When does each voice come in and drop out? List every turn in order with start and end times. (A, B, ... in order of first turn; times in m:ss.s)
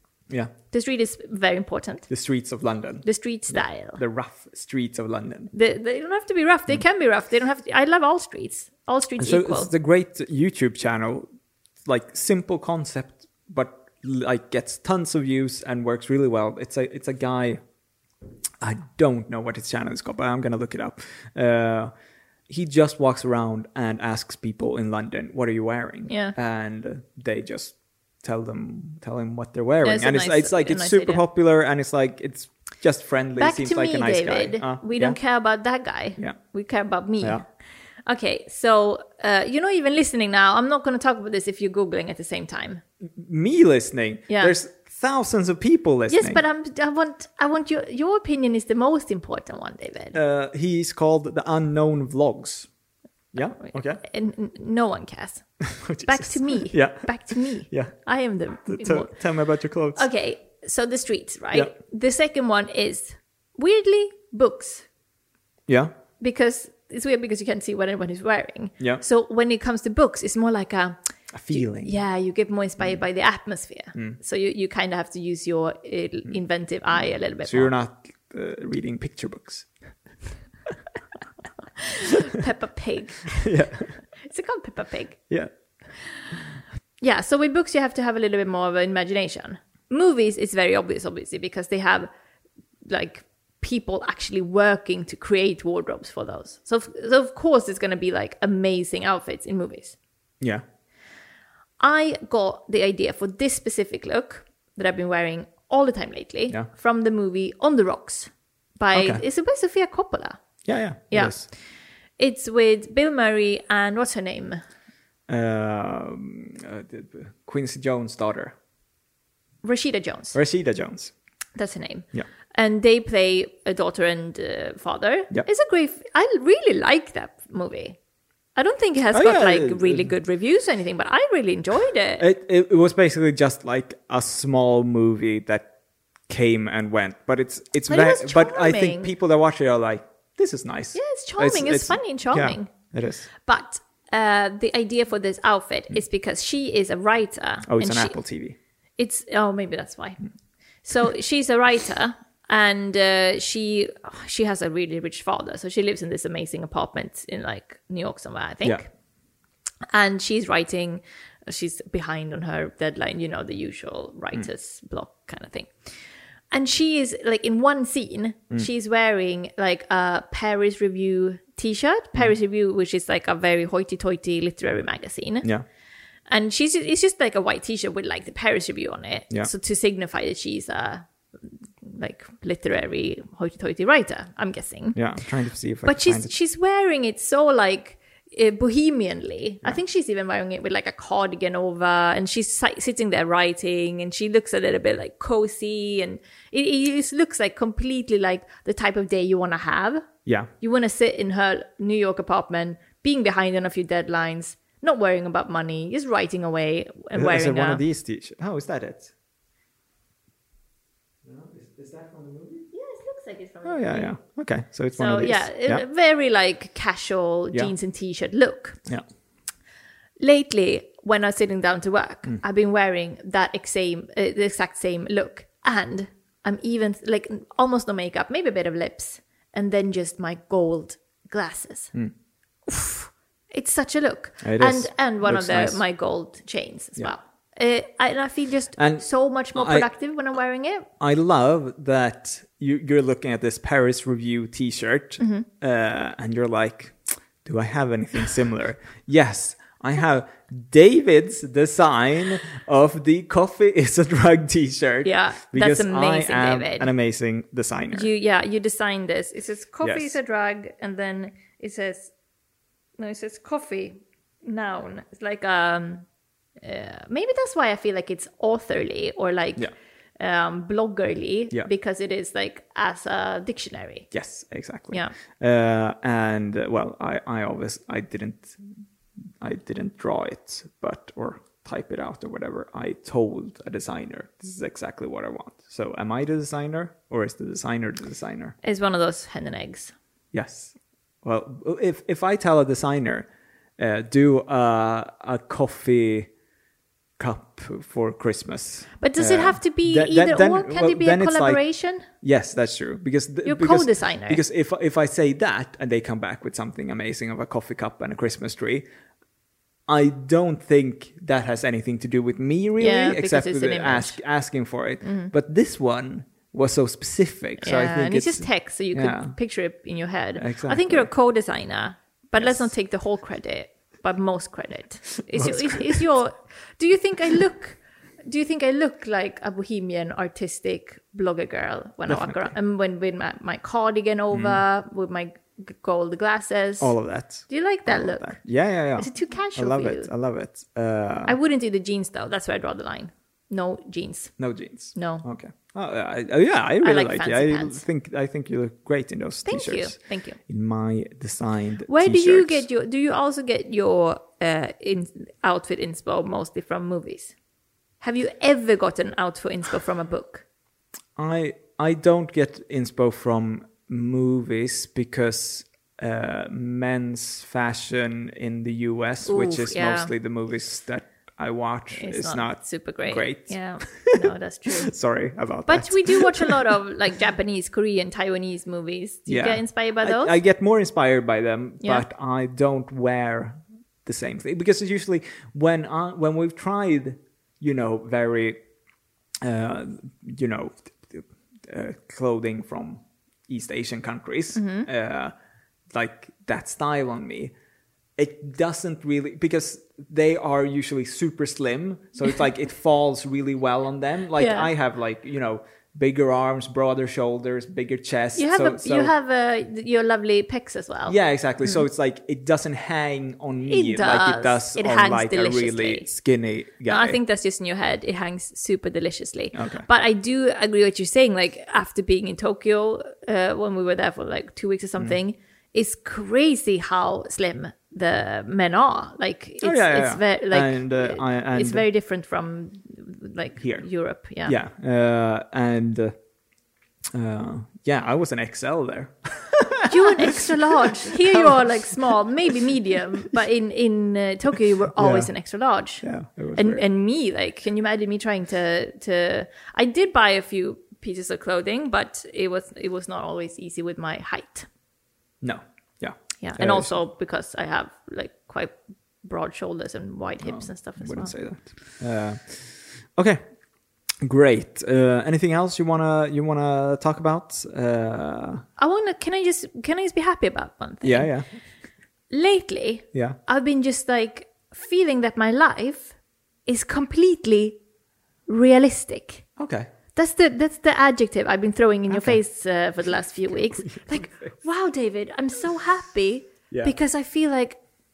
0:00.7-0:02.1 A
0:02.1-0:05.5 B
0:03.0-0:04.0 A
0:05.5-0:09.7 A
0:09.2-0:11.3 B
0:11.8-0:17.6 B
0:18.6-0:21.9 B
0:22.5-0:35.2 B
0:26.1-0:26.4 A
0:29.8-0:31.2 A
0:33.4-0:37.4 A
0:37.2-0:37.5 B
0:38.1-0:42.8 A
0:43.0-0:46.4 B
0:44.3-0:44.6 A
0:46.1-0:50.2 A
0:50.1-0:52.7 B
0:53.3-0:54.0 B
0:54.0-0:55.4 A
0:55.6-0:58.0 B
0:56.0-0:59.1 A
0:58.7-1:00.1 B
1:00.0-1:04.9 A
1:05.7-1:05.9 B
1:06.2-1:11.0 A
1:11.3-1:11.9 B
1:11.5-1:17.7 A
1:17.4-1:19.7 B
1:21.8-1:23.5 A
1:23.4-1:24.0 B
1:24.2-1:25.2 A
1:27.0-1:32.1 A
1:32.9-1:40.0 A
1:41.8-1:50.4 A
1:48.9-1:49.2 B
1:50.7-1:51.5 B
1:51.1-1:51.4 A
1:52.2-1:54.6 A
1:55.3-1:58.6 B
1:59.6-2:00.4 A
2:00.3-2:01.1 B
2:01.6-2:08.0 A
2:08.6-2:12.2 A
2:09.1-2:10.1 B
2:12.2-2:15.7 B
2:16.3-2:23.3 B
2:17.9-2:19.1 A
2:20.9-2:22.7 A
2:23.4-2:28.2 A
2:27.7-2:28.6 B
2:29.0-2:30.2 A
2:30.8-2:38.9 A
2:39.9-2:45.9 A
2:46.5-2:55.5 A
2:56.3-3:01.1 A
3:01.8-3:05.0 A
3:05.0-3:06.3 B
3:05.8-3:20.1 A
3:20.6-3:27.8 A
3:27.1-3:29.1 B
3:31.2-3:32.7 B
3:32.7-3:34.2 A
3:33.6-3:35.8 B
3:35.0-3:38.8 A
3:40.2-3:51.9 A
3:52.7-4:00.9 A
3:54.4-3:55.8 B
3:58.8-3:59.9 B
4:01.0-4:18.1 B
4:05.2-4:05.5 A
4:15.0-4:16.9 A
4:17.9-4:22.1 A
4:19.8-4:20.2 B
4:23.0-4:26.1 A
4:26.6-4:34.1 A
4:34.1-4:38.6 B
4:39.4-4:48.6 B
4:48.6-4:49.9 A
4:50.3-4:56.3 B
4:57.2-5:08.8 B
4:59.0-5:02.1 A
5:03.4-5:04.4 A
5:09.9-5:19.4 B
5:12.8-5:14.2 A
5:15.0-5:15.3 A
5:17.6-5:40.1 A
5:20.4-5:21.1 B
5:25.2-5:26.0 B
5:32.1-5:32.5 B
5:34.3-5:34.6 B
5:36.8-5:41.4 B
5:41.2-5:44.4 A
5:44.4-5:52.7 B
5:45.0-5:45.2 A
5:46.8-5:47.8 A
5:49.5-5:50.4 A
5:51.9-5:57.3 A
5:58.0-6:00.4 A
6:01.2-6:16.6 B
6:09.3-6:10.1 A
6:12.0-6:14.9 A
6:15.7-6:20.4 A
6:19.3-6:28.6 B
6:29.4-6:35.3 B
6:34.6-6:34.9 A
6:35.9-6:37.5 B
6:38.2-6:49.1 B
6:44.4-6:44.7 A
6:48.4-6:51.8 A
6:51.1-6:57.2 B
6:53.7-6:56.1 A
6:56.9-7:14.6 A
6:59.5-6:59.9 B
7:09.6-7:11.9 B
7:13.6-7:13.8 B
7:14.4-7:16.2 B
7:17.1-7:21.7 B
7:19.9-7:34.7 A
7:25.0-7:25.3 B
7:26.0-7:26.8 B
7:35.4-7:36.9 B
7:36.4-7:41.3 A
7:40.4-7:43.4 B
7:44.2-7:48.6 B
7:48.8-7:51.4 A
7:51.0-7:51.6 B
7:52.3-7:56.1 A
7:56.7-7:57.8 A
7:58.5-7:59.5 A
7:59.6-7:59.9 B
8:00.2-8:07.8 A
8:02.1-8:02.4 B
8:03.9-8:04.5 B